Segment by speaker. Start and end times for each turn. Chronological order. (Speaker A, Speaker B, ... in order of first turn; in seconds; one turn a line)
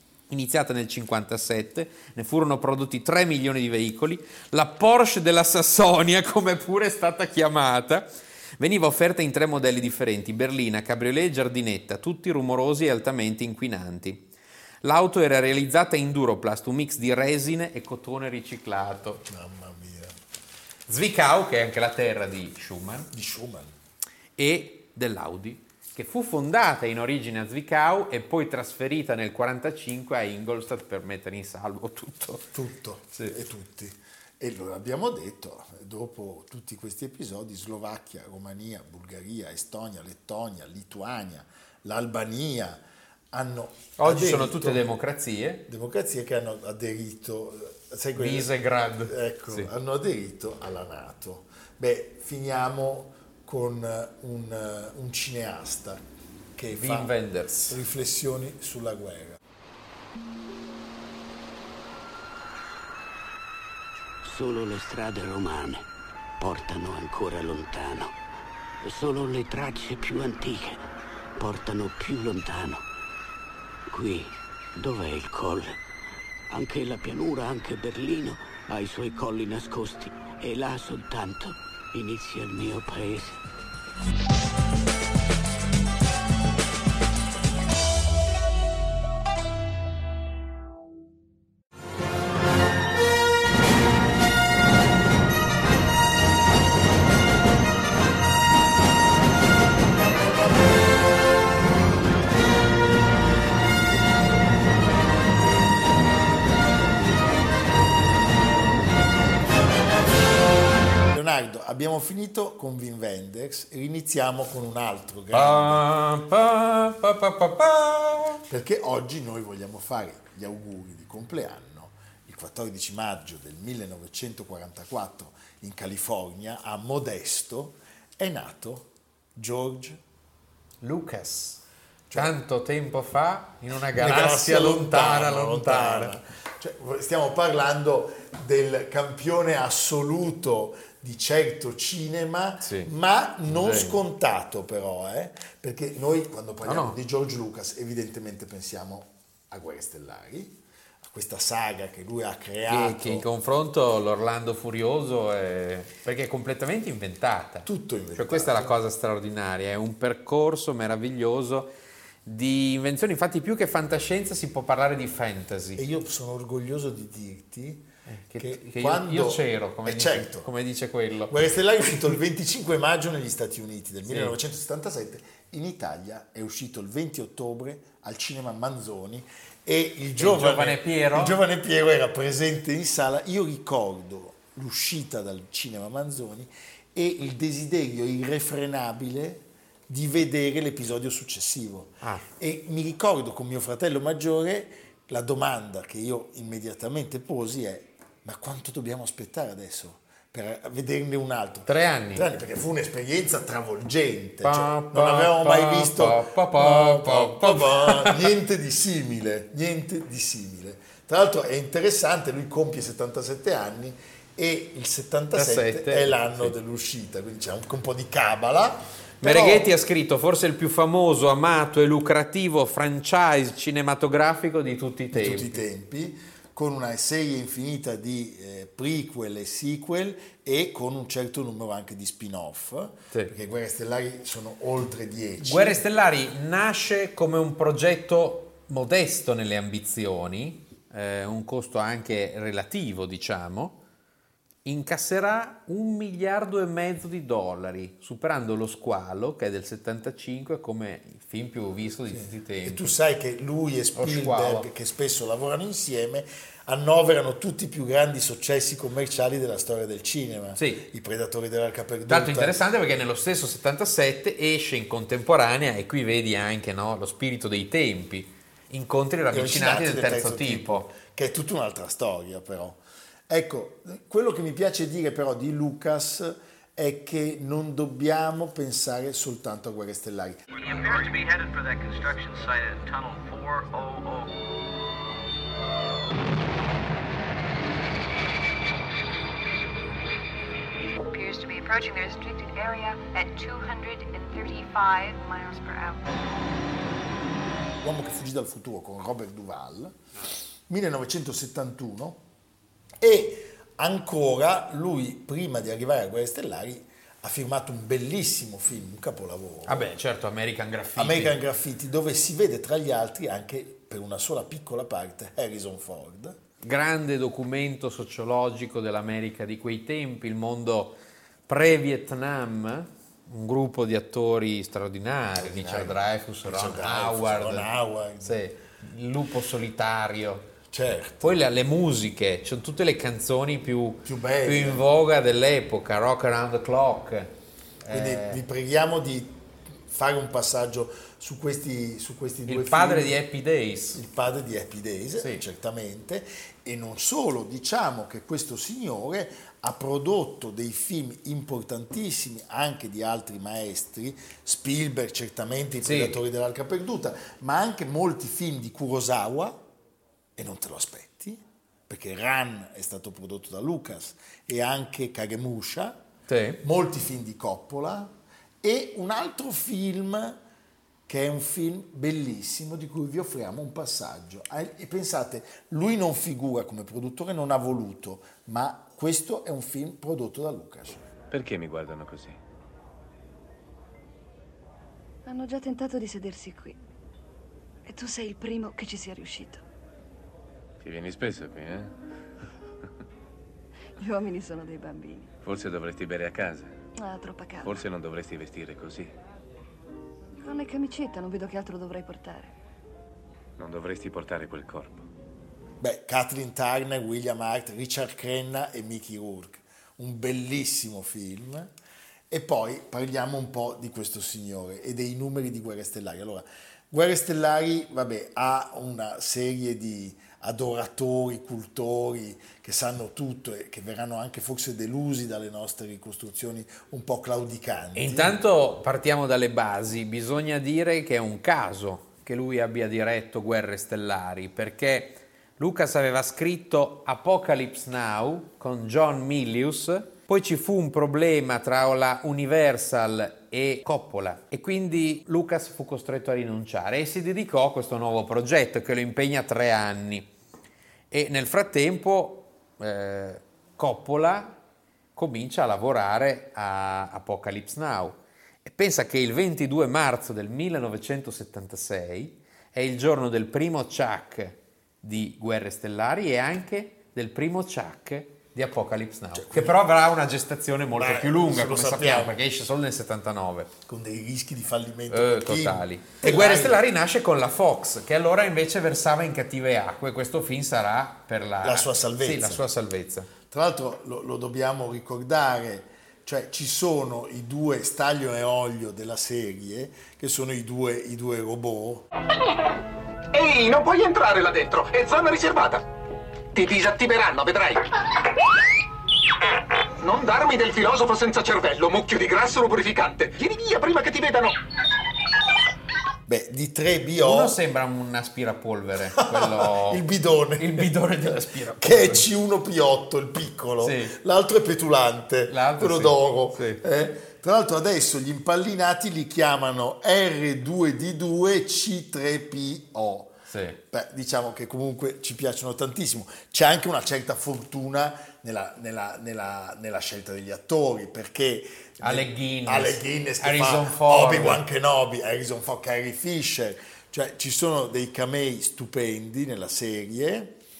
Speaker A: 0.3-8.1
Speaker A: 8.6-14.3
Speaker A: 14.8-19.2
Speaker B: 19.2-20.1
Speaker A: 20.9-23.1
Speaker B: 23.1-23.7
Speaker A: 24.4-32.5
Speaker B: 32.5-44.9
Speaker A: 44.0-45.6
Speaker B: 45.7-56.0
Speaker A: 48.1-49.7
Speaker B: 56.5-57.1
Speaker A: 56.7-57.8
Speaker B: 57.7-59.4
Speaker C: 64.2-65.8
Speaker C: 66.4-68.1
Speaker C: 68.8-70.8
Speaker C: 71.4-72.8
Speaker C: 73.9-75.8
Speaker C: 76.5-83.4
Speaker B: 111.1-115.8
Speaker A: 115.3-118.4
Speaker B: 118.5-130.0
Speaker A: 130.8-131.6
Speaker B: 132.1-132.3
Speaker A: 132.1-136.1
Speaker B: 133.9-153.3
Speaker A: 142.6-142.9
Speaker A: 143.5-144.0
Speaker A: 146.6-147.0
Speaker A: 152.7-161.7
Speaker B: 157.6-158.8
Speaker A: 162.2-165.8
Speaker B: 165.8-170.5
Speaker A: 168.1-171.3
Speaker B: 171.3-219.7
Speaker A: 174.1-174.3
Speaker A: 180.2-181.4
Speaker A: 201.7-202.2
Speaker A: 204.4-208.3
Speaker A: 215.3-216.5
Speaker A: 219.2-225.6
Speaker B: 225.1-235.8
Speaker A: 235.4-243.8
Speaker A: 244.6-252.9
Speaker B: 252.1-262.6
Speaker A: 253.9-254.7
Speaker A: 260.6-260.9
Speaker A: 262.1-270.9
Speaker B: 269.3-280.4
Speaker D: 280.5-284.3
Speaker E: 290.9-296.2
Speaker B: 297.8-299.9
Speaker B: 300.7-302.2
Speaker B: 303.0-309.9
Speaker A: 309.7-311.4
Speaker B: 310.9-316.4
Speaker A: 316.6-327.7
Speaker B: 325.3-328.4
Speaker A: 328.2-330.5
Speaker B: 330.7-331.4
Speaker A: 331.2-338.4
Speaker B: 334.0-334.8
Speaker B: 337.9-343.2
Speaker A: 342.5-344.0
Speaker B: 343.9-359.6
Speaker A: 345.2-345.4
Speaker A: 355.8-356.2
Speaker B: 360.4-366.0
Speaker A: 366.3-366.6
Speaker B: 366.6-370.4
Speaker B: 371.1-381.0
Speaker F: 381.3-382.4
Speaker G: 385.2-386.8
Speaker G: 387.9-389.6
Speaker F: 390.8-391.9
Speaker G: 394.0-395.3
Speaker F: 395.4-396.7
Speaker G: 397.0-397.8
Speaker F: 397.6-399.1
Speaker G: 400.4-402.5
Speaker F: 403.6-405.1
Speaker B: 405.8-411.7
Speaker B: 412.3-428.4
Speaker A: 427.9-450.3
Speaker A: 451.1-454.6
Speaker A: 455.1-473.7
Speaker B: 469.3-469.8
Speaker B: 471.0-472.4
Speaker B: 473.9-476.8
Speaker A: 475.1-483.3
Speaker B: 481.6-482.7
Speaker B: 483.4-492.1
Speaker H: 493.3-495.9
Speaker H: 496.5-497.9
Speaker H: 500.0-504.6
Speaker B: 506.2-507.6
Speaker A: 507.2-510.0
Speaker B: 509.1-510.9
Speaker A: 510.6-512.3
Speaker B: 511.8-540.6
Speaker A: 513.8-514.1
Speaker A: 515.5-516.8
Speaker A: 523.5-523.8
Speaker A: 532.0-534.6